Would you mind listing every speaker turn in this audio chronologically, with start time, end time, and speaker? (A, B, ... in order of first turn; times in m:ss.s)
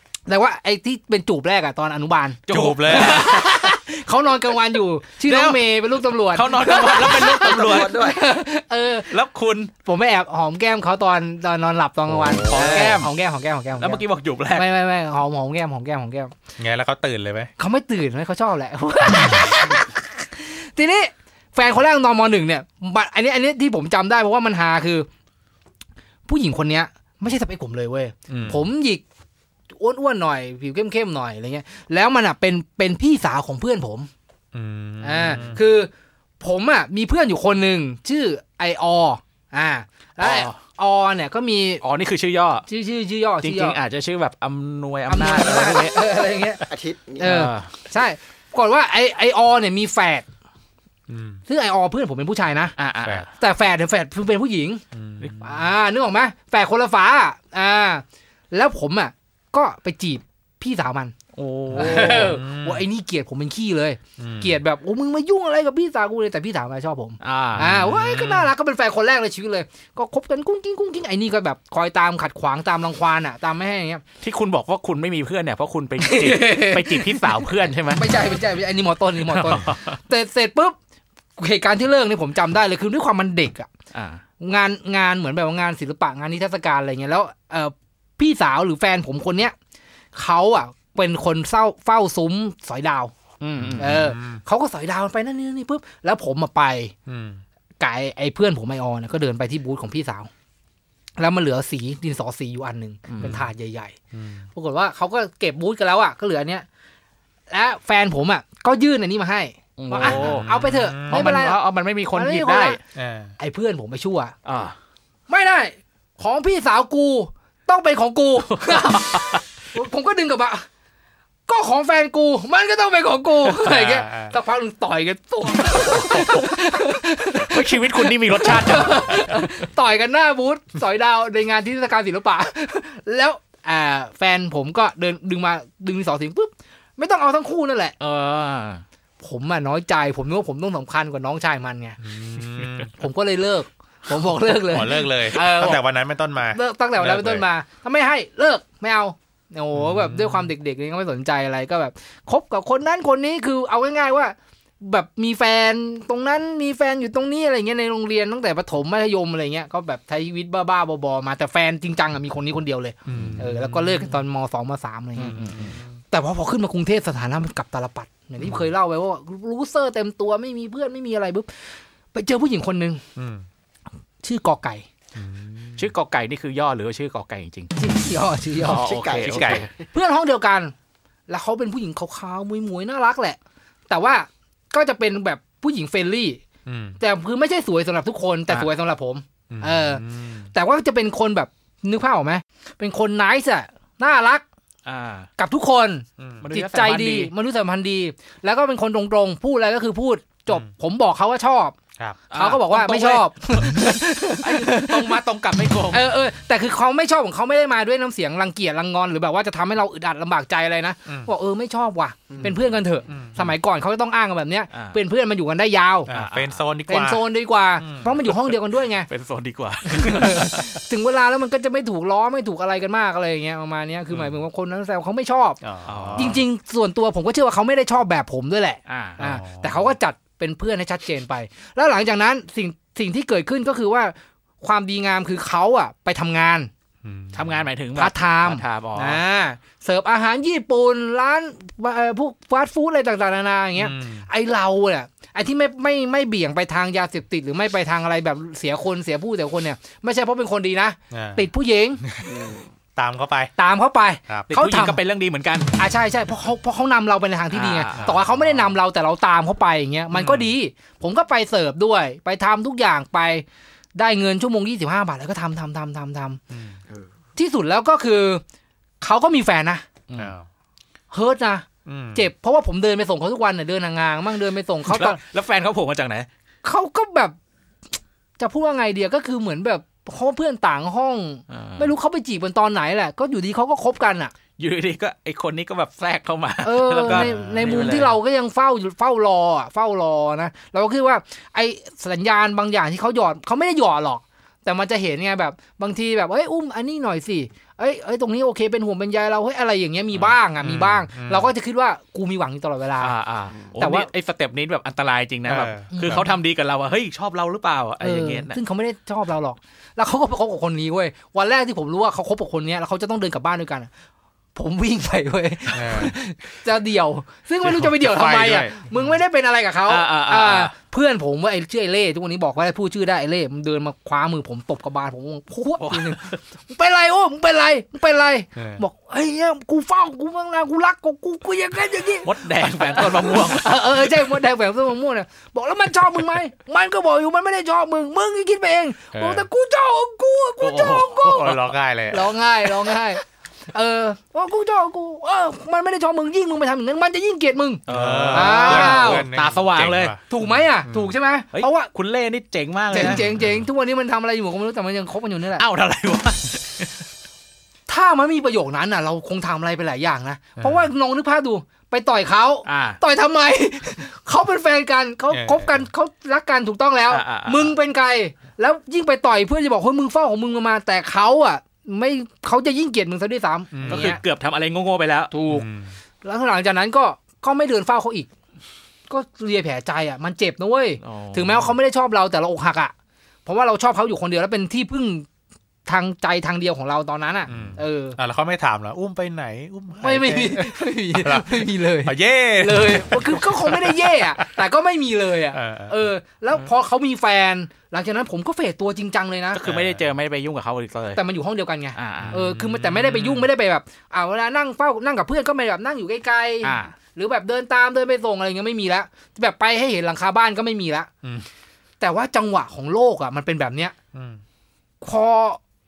0:00.3-0:09.1 A
0:02.5-0:03.8 B
0:02.5-0:03.2 C
0:05.2-0:05.6 B
0:06.3-0:08.0 B
0:07.2-0:08.3 D
0:09.1-0:09.7 B
0:09.8-0:16.3 A
0:12.1-0:13.0 C
0:12.4-0:13.1 B
0:13.8-0:14.7 B
0:16.6-0:17.5 C
0:17.6-0:25.1 A
0:26.3-0:29.0 A
0:28.3-0:28.6 C
0:29.8-0:34.1 A
0:34.5-0:35.6 C
0:35.0-0:35.9 A
0:36.4-0:41.8 A
0:40.2-0:40.6 B
0:41.8-0:42.7 B
0:42.7-0:43.8 A
0:43.4-0:46.2 B
0:45.1-0:46.6 A
0:46.6-0:47.4 D
0:47.2-0:50.2 A
0:47.2-0:47.7 B
0:51.1-0:51.4 C
0:51.5-0:52.7 A
0:52.8-0:53.3 B
0:53.4-0:54.8 A
0:54.9-0:55.6 C
0:55.4-1:01.1 A
1:01.4-1:02.4 B
1:01.7-1:14.0 A
1:01.8-1:02.8 C
1:04.2-1:04.6 C
1:07.2-1:07.9 B
1:07.6-1:08.5 C
1:14.2-1:18.0 B
1:16.0-1:20.8 A
1:19.3-1:20.0 B
1:21.4-1:23.7 A
1:23.9-1:24.2 B
1:24.4-1:29.5 A
1:30.1-1:33.1 A
1:33.4-1:34.0 B
1:33.6-1:34.4 C
1:33.8-1:36.9 A
1:37.1-1:37.4 C
1:37.8-1:40.3 A
1:41.2-1:44.0 A
1:43.1-1:43.5 B
1:44.1-1:44.5 C
1:44.5-1:46.6 A
1:47.5-1:51.6 A
1:49.8-1:50.5 B
1:50.0-1:51.3 C
1:51.1-1:52.8 B
1:52.1-1:52.8 A
1:52.9-1:53.3 C
1:53.4-1:54.3 A
1:54.4-1:54.7 B
1:55.3-2:00.6 A
1:58.5-1:59.4 B
2:01.5-2:17.9 A
2:03.6-2:04.3 C
2:05.6-2:06.5 B
2:07.4-2:09.4 B
2:18.0-2:18.8 B
2:19.2-2:22.0 A
2:22.0-2:22.9 C
2:22.6-2:22.9 B
2:23.0-2:25.8 A
2:24.6-2:27.4 C
2:25.3-2:25.7 B
2:26.5-2:45.4 A
2:29.7-2:30.5 C
2:43.0-2:44.2 C
2:43.1-2:43.4 B
2:45.2-2:45.8 B
2:45.2-2:46.0 C
2:46.1-2:51.5 A
2:52.1-2:53.0 A
2:53.2-2:53.4 C
2:54.2-2:54.8 A
2:55.1-2:55.9 C
2:55.8-2:57.7 B
2:57.8-2:58.9 A
2:58.6-2:59.7 B
2:58.7-2:59.8 D
2:59.2-2:59.6 C
2:59.9-3:00.7 A
3:01.3-3:03.4 A
3:03.9-3:06.4 A
3:06.6-3:07.0 C
3:07.0-3:14.4 A
3:09.5-3:10.5 C
3:14.8-3:15.3 B
3:15.4-3:21.8 A
3:16.2-3:16.4 C
3:16.4-3:17.3 B
3:22.3-3:26.1 B
3:22.3-3:25.2 A
3:25.9-3:36.1 A
3:32.3-3:32.6 D
3:33.1-3:33.5 C
3:34.7-3:35.0 B
3:36.1-3:37.2 C
3:36.1-3:36.6 B
3:36.9-3:39.1 A
3:37.8-3:38.2 C
3:38.3-3:38.5 B
3:39.1-3:40.6 B
3:39.9-3:45.6 A
3:45.6-3:46.4 C
3:45.8-3:46.4 B
3:46.1-3:56.7 A
3:48.9-3:49.2 B
3:49.2-3:49.9 C
3:57.0-3:57.7 C
3:57.3-3:59.2 B
3:57.9-4:12.0 A
4:03.8-4:04.3 C
4:11.1-4:11.5 C
4:12.0-4:12.4 C
4:12.2-4:12.6 D
4:12.9-4:13.5 C
4:13.6-4:15.0 A
4:14.5-4:15.7 B
4:15.8-4:23.4 A
4:17.5-4:18.1 B
4:17.9-4:18.7 C
4:20.1-4:20.5 C
4:24.0-4:26.4 A
4:26.5-4:26.8 C
4:27.4-4:28.4 A
4:29.0-4:29.8 A
4:30.1-4:30.3 B
4:30.2-4:30.5 C
4:31.1-4:35.2 A
4:31.8-4:32.3 C
4:34.9-4:36.3 B
4:36.6-4:37.4 A
4:38.4-4:44.3 A
4:41.5-4:41.9 B
4:44.6-4:48.2 B
4:46.6-5:03.1 A
4:47.1-4:48.0 C
5:00.6-5:01.0 B
5:01.1-5:01.5 C
5:03.0-5:08.6 B
5:03.8-5:04.1 A
5:05.4-5:06.2 C
5:05.9-5:06.3 A
5:08.0-5:13.9 A
5:14.5-5:41.5 A
5:15.7-5:16.1 C
5:17.6-5:19.1 C
5:19.9-5:20.7 B
5:25.8-5:26.4 B
5:28.6-5:28.8 C
5:32.2-5:33.8 B
5:39.1-5:39.5 B
5:40.6-5:41.7 B
5:41.3-5:42.3 C
5:42.1-5:49.3 A
5:47.9-5:50.1 B
5:47.9-5:51.1 C
5:50.3-5:51.9 A
5:51.5-5:53.3 B
5:52.9-5:55.6 A
5:53.0-5:53.6 C
5:55.6-5:56.9 B
5:57.9-6:14.2 A
6:00.6-6:00.8 C
6:02.6-6:03.0 B
6:05.3-6:05.9 C
6:07.1-6:07.7 B
6:13.7-6:14.1 C
6:13.9-6:15.6 B
6:15.5-6:16.0 C
6:16.2-6:18.3 A
6:19.1-6:22.9 A
6:21.0-6:21.7 B
6:23.4-6:25.3 A
6:25.8-6:28.2 A
6:27.5-6:34.4 C
6:30.0-6:39.6 A
6:35.5-6:36.0 C
6:39.5-6:41.2 B
6:39.6-6:40.1 C
6:41.1-6:51.1 A
6:42.0-6:42.4 B
6:42.2-6:43.5 C
6:46.6-6:46.9 B
6:52.0-6:53.9 A
6:54.1-6:54.4 C
6:55.0-6:55.6 A